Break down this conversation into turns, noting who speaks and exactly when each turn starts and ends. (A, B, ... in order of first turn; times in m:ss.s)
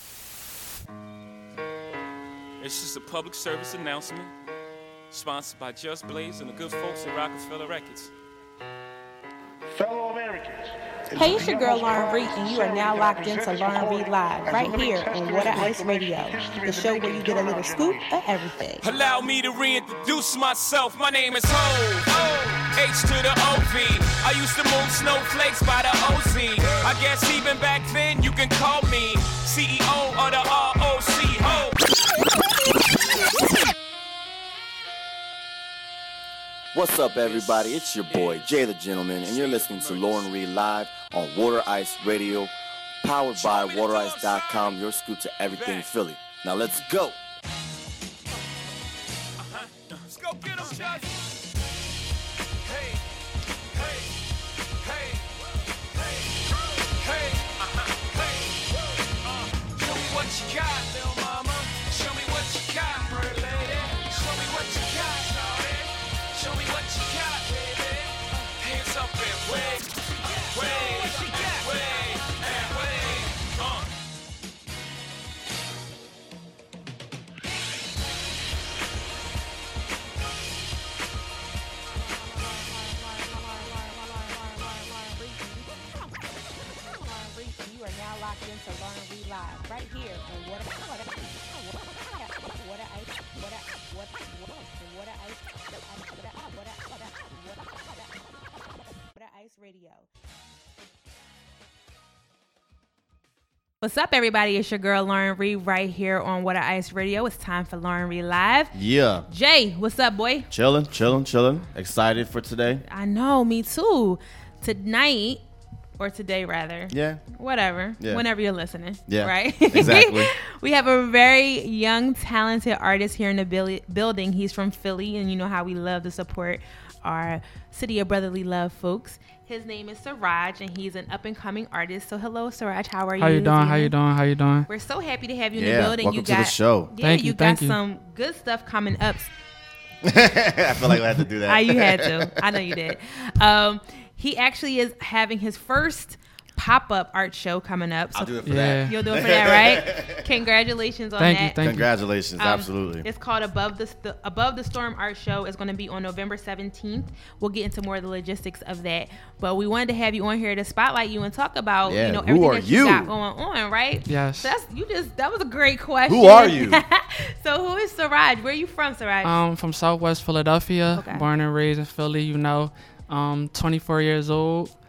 0:02.6-0:04.3 A
0:05.1-0:08.1 A
0:09.7-0:18.2 B
0:11.1-0:18.9 C
0:18.8-0:31.8 A
0:36.7-0:47.2 D
0:37.2-0:37.5 A
0:38.1-0:38.6 A
0:39.2-0:40.3 A
0:43.3-0:44.8 A
0:45.4-0:45.9 A
0:49.4-0:51.1 A
0:52.6-0:53.0 A
0:53.7-0:54.1 A
0:54.8-0:55.3 A
0:56.0-1:13.9 A
1:22.2-1:25.9 C
1:26.7-1:40.1 C
1:43.8-1:48.7 C
1:48.7-1:49.3 D
1:49.3-1:50.5 C
1:50.5-1:52.8 D
1:52.9-1:55.4 C
1:56.0-2:14.0 C
1:56.9-1:57.2 D
1:59.1-2:00.3 D
2:13.2-2:14.7 E
2:14.7-2:19.3 C
2:15.5-2:16.9 D
2:17.0-2:17.8 E
2:20.0-2:22.8 D
2:21.4-2:31.6 C
2:28.1-2:30.3 D
2:28.4-2:29.0 E
2:31.2-2:31.9 E
2:31.6-2:33.1 D
2:32.4-2:49.4 C
2:41.9-2:43.1 D
2:44.1-2:44.5 E
2:46.1-2:46.8 D
2:49.2-2:54.7 E
2:51.0-2:51.3 C